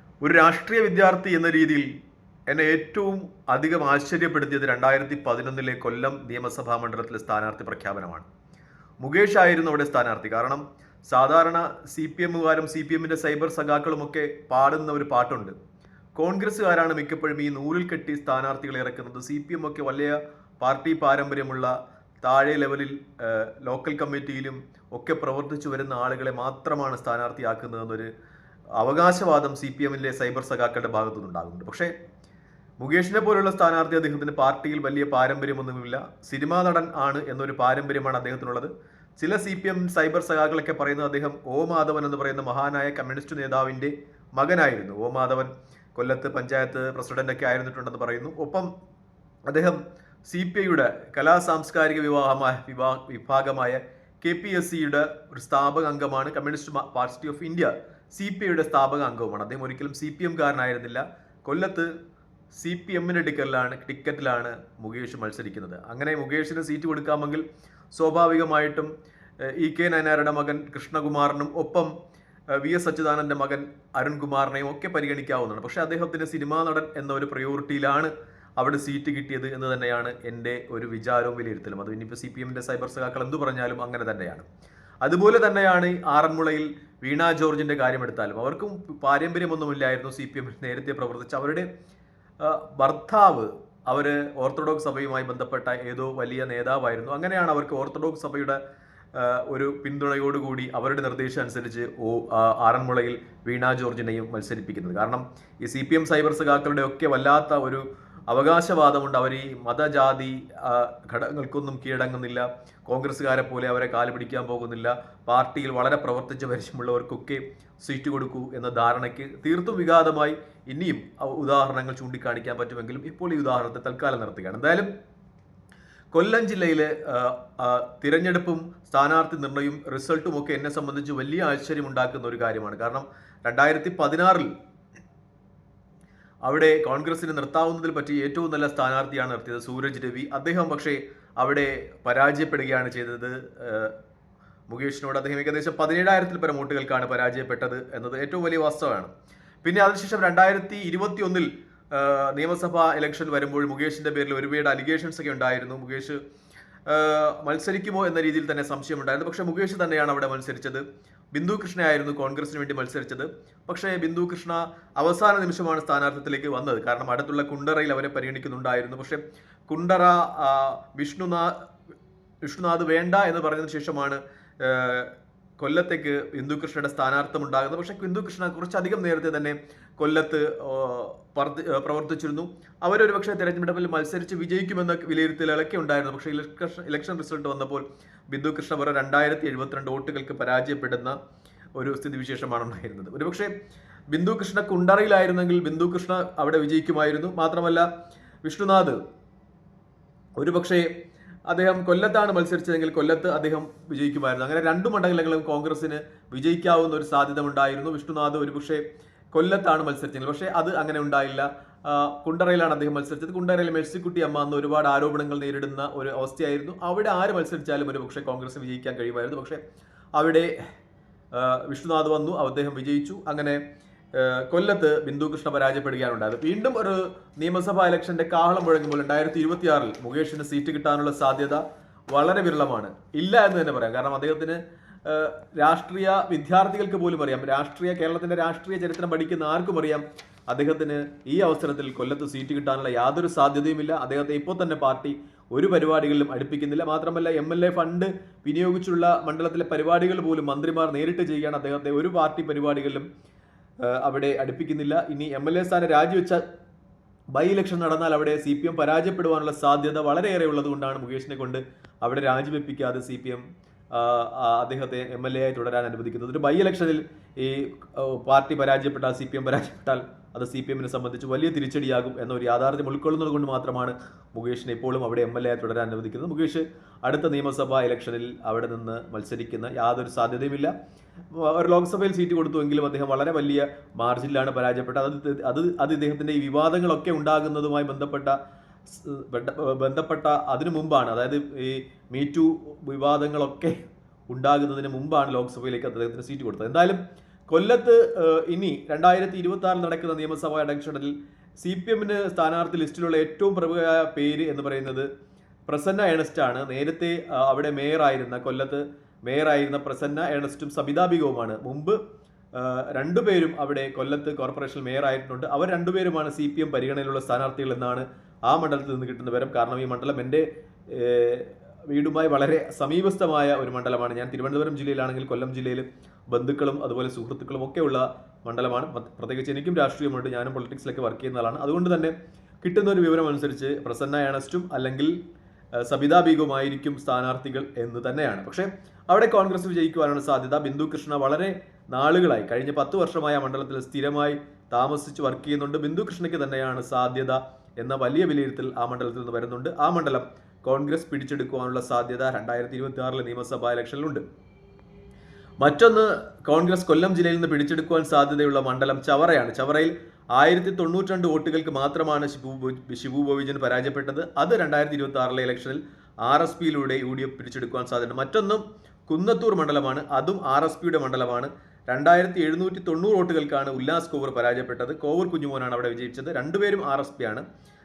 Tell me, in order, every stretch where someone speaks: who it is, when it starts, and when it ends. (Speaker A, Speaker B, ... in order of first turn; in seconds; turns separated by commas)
Speaker A: 0.2-1.9, Speaker A: 2.5-8.3, Speaker A: 9.0-15.5, Speaker A: 16.1-28.1, Speaker A: 28.8-31.9, Speaker A: 32.8-48.7, Speaker A: 49.5-61.9, Speaker A: 62.5-68.9, Speaker A: 69.4-71.9, Speaker A: 72.5-84.5, Speaker A: 85.0-91.7, Speaker A: 92.4-98.6, Speaker A: 99.1-124.9, Speaker A: 126.1-134.5, Speaker A: 136.4-143.9, Speaker A: 144.7-149.1, Speaker A: 149.6-156.2, Speaker A: 156.9-171.6, Speaker A: 172.4-191.2, Speaker A: 191.8-193.5, Speaker A: 194.1-197.9, Speaker A: 198.4-199.0, Speaker A: 200.4-200.9, Speaker A: 201.5-208.8, Speaker A: 209.3-219.6, Speaker A: 220.2-220.5, Speaker A: 221.3-223.6, Speaker A: 224.1-253.1, Speaker A: 253.8-256.4, Speaker A: 257.3-280.7, Speaker A: 281.3-288.4, Speaker A: 288.9-293.8, Speaker A: 294.3-305.1, Speaker A: 305.7-312.0, Speaker A: 312.5-335.1, Speaker A: 335.8-354.2, Speaker A: 355.6-377.4